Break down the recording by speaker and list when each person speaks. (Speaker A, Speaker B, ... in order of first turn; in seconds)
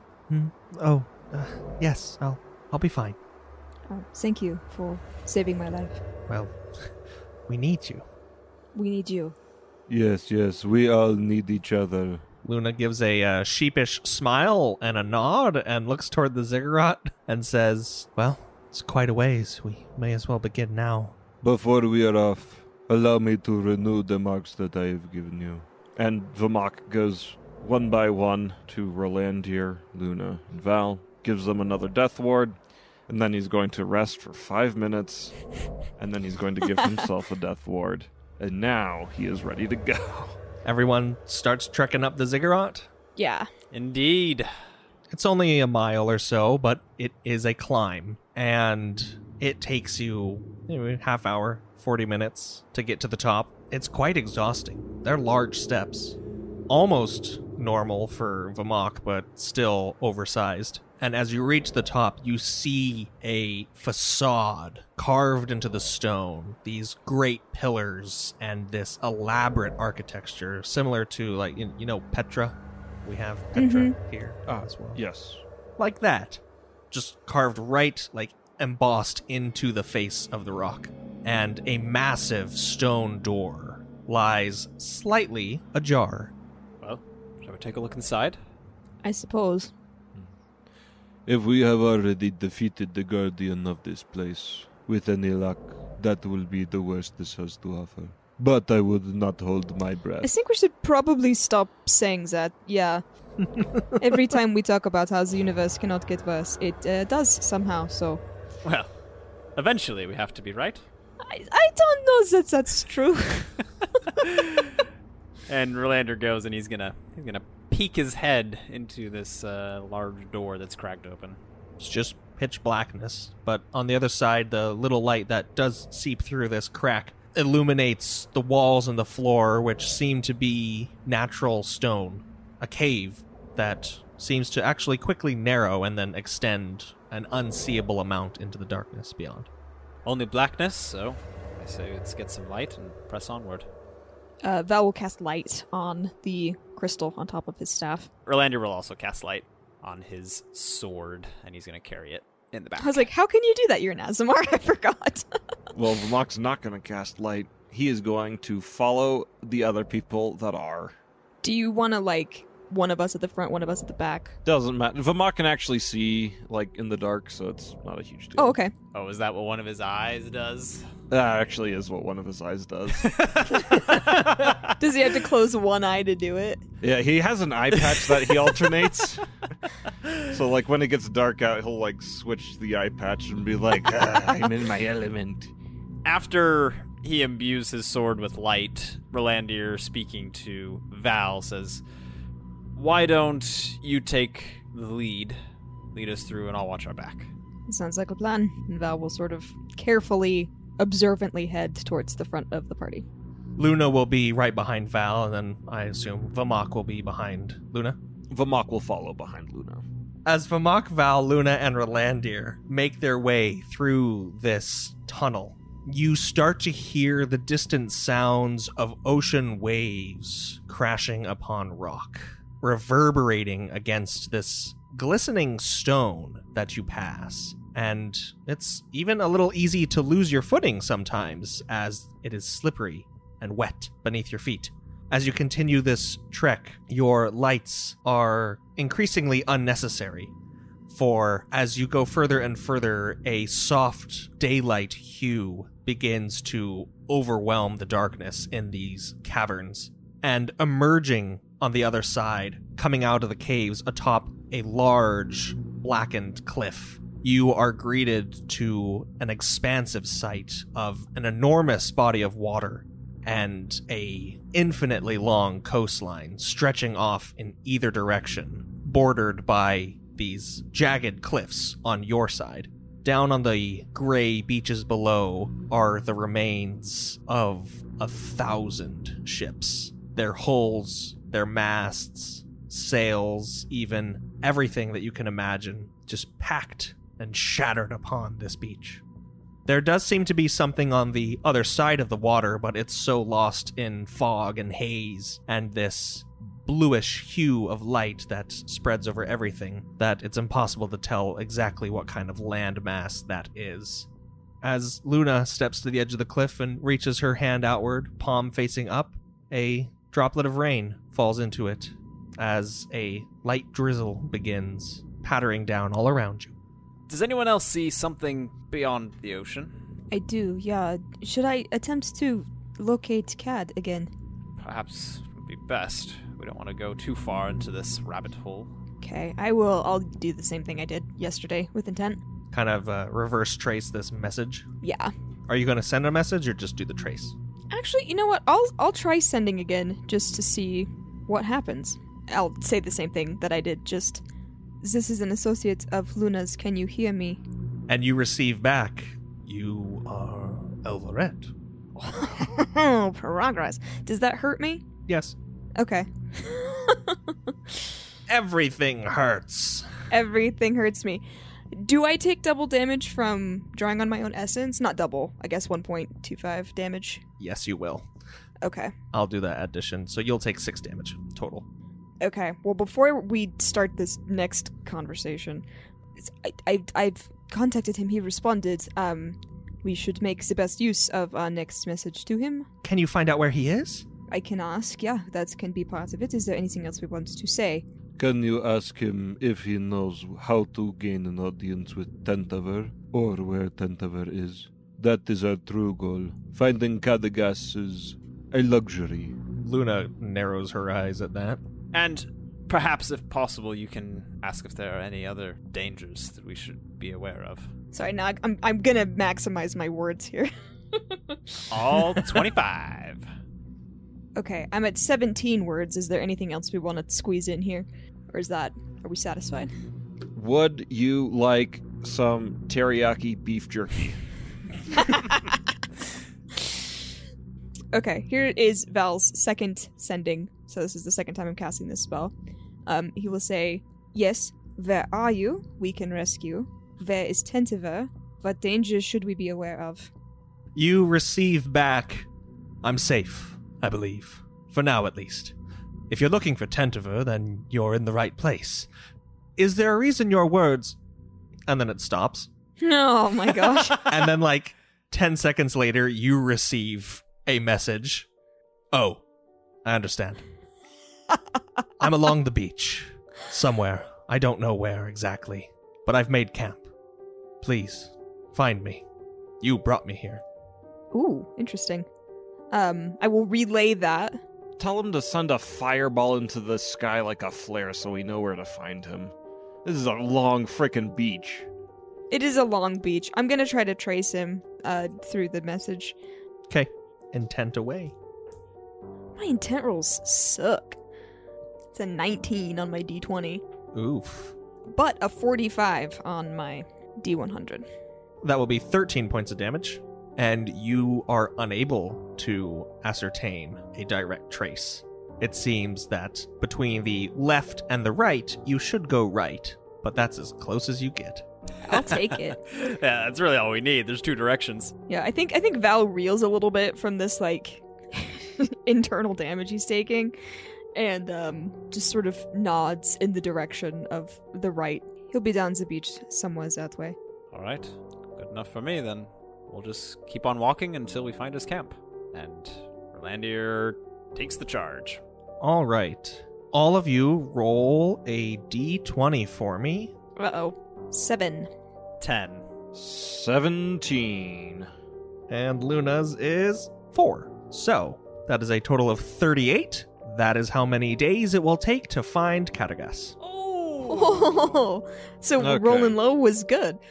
Speaker A: 0.3-3.2, 6.3-6.9, 7.5-8.1, 12.4-21.2, 40.6-42.9, 45.1-56.2, 56.7-75.0, 75.8-86.3, 103.5-104.0, 121.8-139.5, 203.6-208.0, 210.3-240.3, 240.9-289.0, 289.7-304.1, 304.6-316.6, 332.5-334.7, 335.5-337.4, 347.9-351.5, 355.1-355.4, 358.3-359.9, 367.4-368.1, 369.1-371.6, 382.8-384.1, 399.5-401.6, 440.8-442.3, 442.8-445.6, 446.1-448.9, 449.6-451.0, 451.7-452.5, 453.9-458.3, 458.9-459.2, 459.9-460.4, 462.0-466.9, 467.6-469.0, 469.6-470.4, 486.7-488.1, 493.9-494.5, 498.4-511.5, 535.6-540.1, 545.5-553.4
Speaker B: 3.9-6.0, 8.7-9.3, 43.2-43.5, 73.5-73.9, 89.0-89.7, 100.2-103.0, 104.0-108.2, 111.2-113.6, 144.4-148.1, 152.8-155.2, 161.4-164.4, 168.3-168.7, 174.8-176.6, 197.7-203.1, 320.1-324.1, 329.0-332.2, 334.8-335.1, 337.7-344.2, 344.8-347.4, 352.1-354.8, 355.8-357.8, 360.1-367.2, 368.6-368.9, 372.2-375.6, 376.2-382.7, 384.3-387.9, 407.9-411.6, 414.4-419.7, 425.0-425.4, 427.9-432.3, 432.9-440.1, 452.8-454.2, 471.1-472.1, 472.7-474.4, 482.3-486.1, 489.4-491.0, 491.9-493.6, 494.9-497.9, 511.9-512.6, 515.1-520.4, 520.9-527.2, 540.4-541.7, 554.1-557.0
Speaker C: 9.9-12.2, 21.4-25.7, 91.3-100.3, 388.2-399.4
Speaker D: 26.0-32.6, 33.1-35.4, 36.0-40.4, 74.5-75.4, 155.7-160.9, 164.4-168.6, 171.1-173.1, 176.8-179.3, 180.3-185.5, 208.3-209.8, 420.4-424.2, 474.8-481.7, 542.9-544.9, 555.6-556.2
Speaker E: 43.7-44.5, 86.8-88.4, 108.6-108.9, 109.6-110.8, 114.2-114.7, 115.5-121.4, 140.0-143.7, 148.3-153.1, 168.9-170.9, 173.0-174.8, 186.0-191.8, 192.8-195.4, 195.9-197.3, 317.1-319.7, 324.6-328.7, 401.9-407.7, 411.7-413.3, 512.1-514.9, 527.5-535.2, 542.2-542.7, 553.4-554.4